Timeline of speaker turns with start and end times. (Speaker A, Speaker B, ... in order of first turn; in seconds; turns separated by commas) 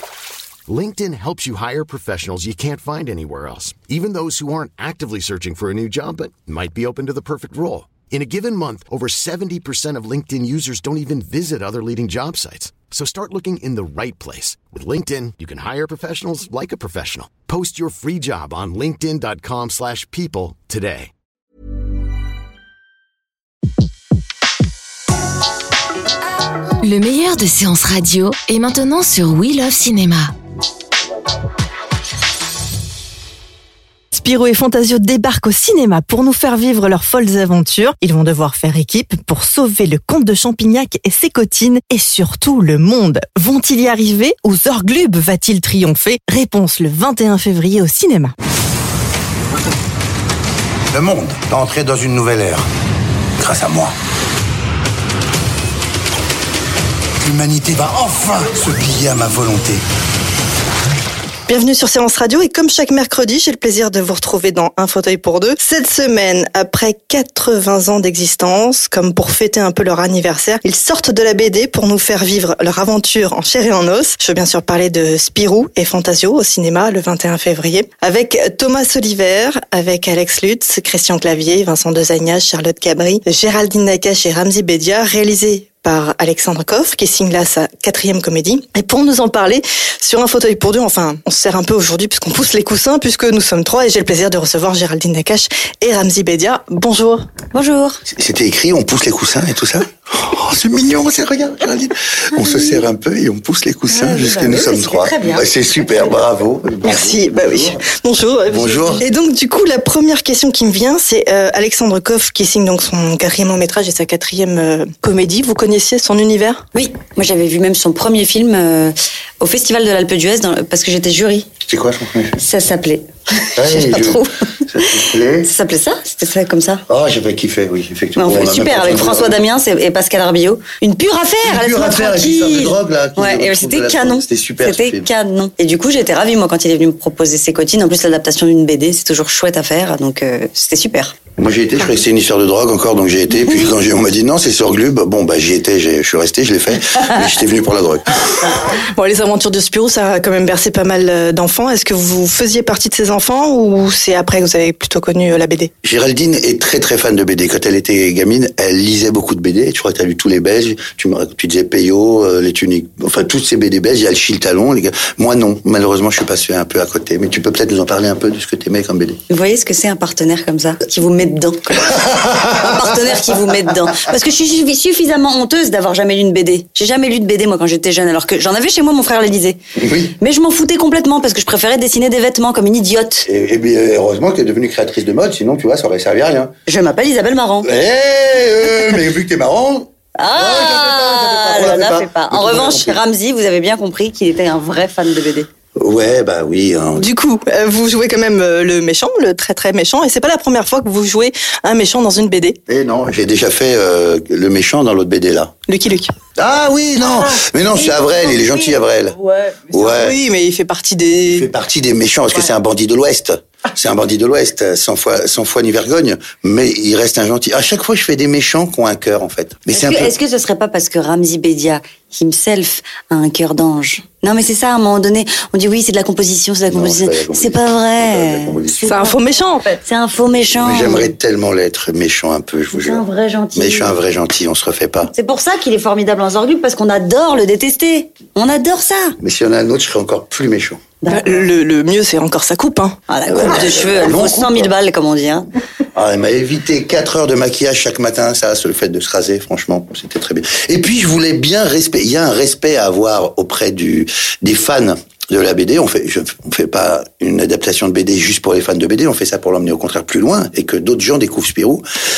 Speaker A: 0.7-21.1, Speaker B: 26.8-30.3, Speaker C: 34.1-48.3, Speaker D: 50.9-52.6, Speaker D: 53.4-53.9, Speaker D: 57.2-59.8, Speaker C: 61.5-97.2, Speaker E: 97.5-98.0, Speaker D: 98.1-107.8, Speaker E: 103.9-105.5, Speaker C: 106.8-116.6, Speaker D: 108.5-109.0, Speaker E: 116.7-121.5, Speaker D: 121.6-122.4, Speaker E: 122.4-124.3, Speaker D: 123.5-125.5, Speaker E: 125.4-126.8, Speaker D: 126.9-129.4, Speaker E: 128.2-141.1, Speaker D: 131.4-135.1, Speaker D: 141.4-148.2, Speaker C: 148.9-155.7, Speaker D: 155.8-169.2, Speaker E: 169.3-179.6, Speaker D: 179.8-180.1, Speaker E: 180.2-183.3, Speaker D: 183.2-186.5, Speaker E: 186.7-187.7, Speaker D: 187.6-193.0, Speaker E: 190.2-195.5, Speaker D: 195.8-197.1, Speaker C: 196.9-202.6, Speaker D: 202.7-205.5, Speaker C: 205.7-206.1, Speaker D: 206.3-210.2, Speaker C: 209.9-211.5, Speaker D: 211.3-220.1, Speaker E: 219.7-231.1, Speaker D: 226.7-229.0, Speaker C: 228.8-229.7, Speaker D: 230.6-235.1, Speaker E: 232.7-234.0, Speaker E: 235.1-239.1, Speaker D: 239.2-240.8, Speaker E: 241.0-241.3, Speaker C: 241.1-243.0, Speaker E: 243.1-245.4, Speaker D: 243.3-244.7, Speaker D: 245.9-261.8